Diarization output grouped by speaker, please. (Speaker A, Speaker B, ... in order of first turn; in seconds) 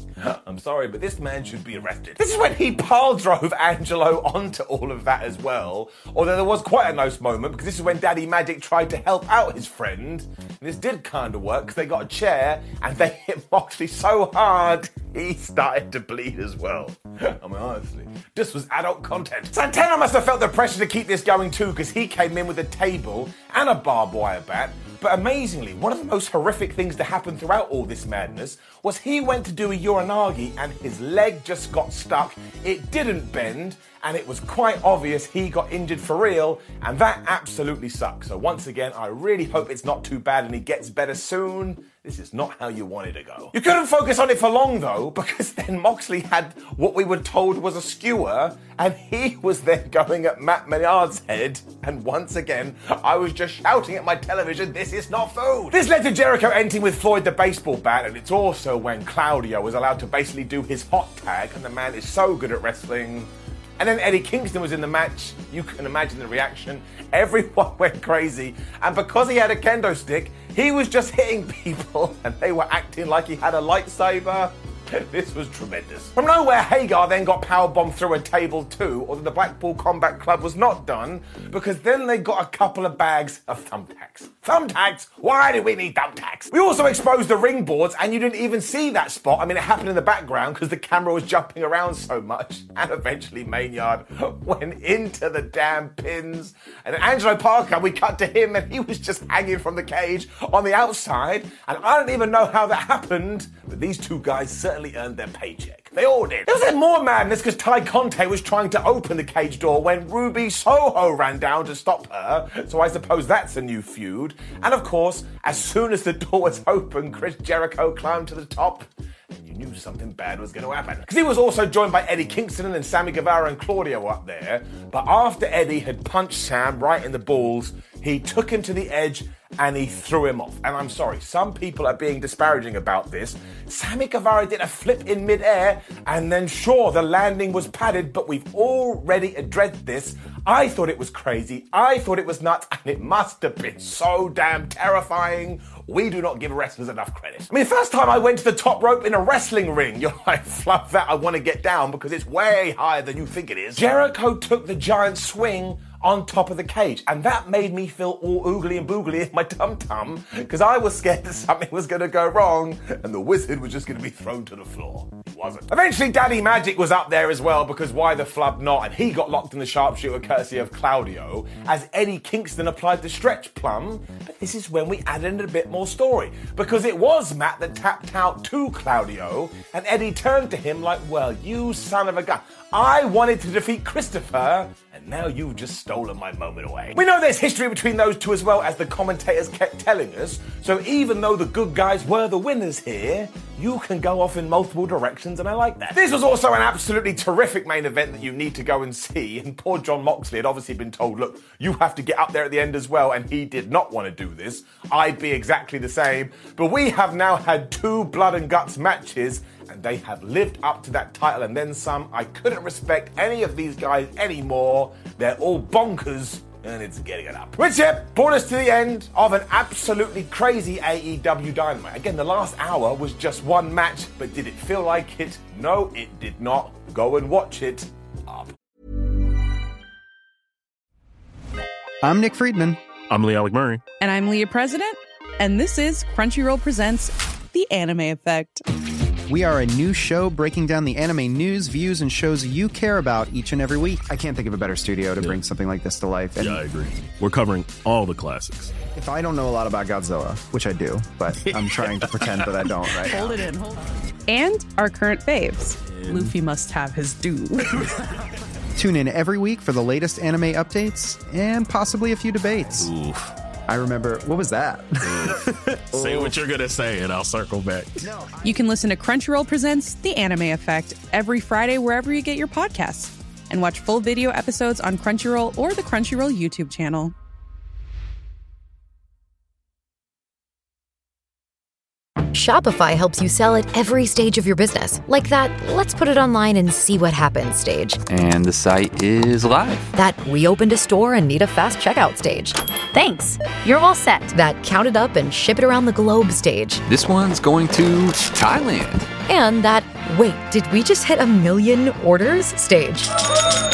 Speaker A: 0.2-228.5
Speaker B: 232.0-232.8, 239.3-246.6, 248.9-253.4, 258.8-262.9, 263.7-266.4, 268.0-268.6
Speaker C: 233.1-233.8, 246.3-248.7, 255.8-256.3, 262.8-263.3, 265.1-265.4, 265.9-268.0
Speaker D: 234.0-238.6, 253.0-257.8, 268.4-277.1
Speaker E: 282.3-288.0, 289.9-296.8, 299.3-303.1
Speaker F: 288.1-289.9, 296.9-299.1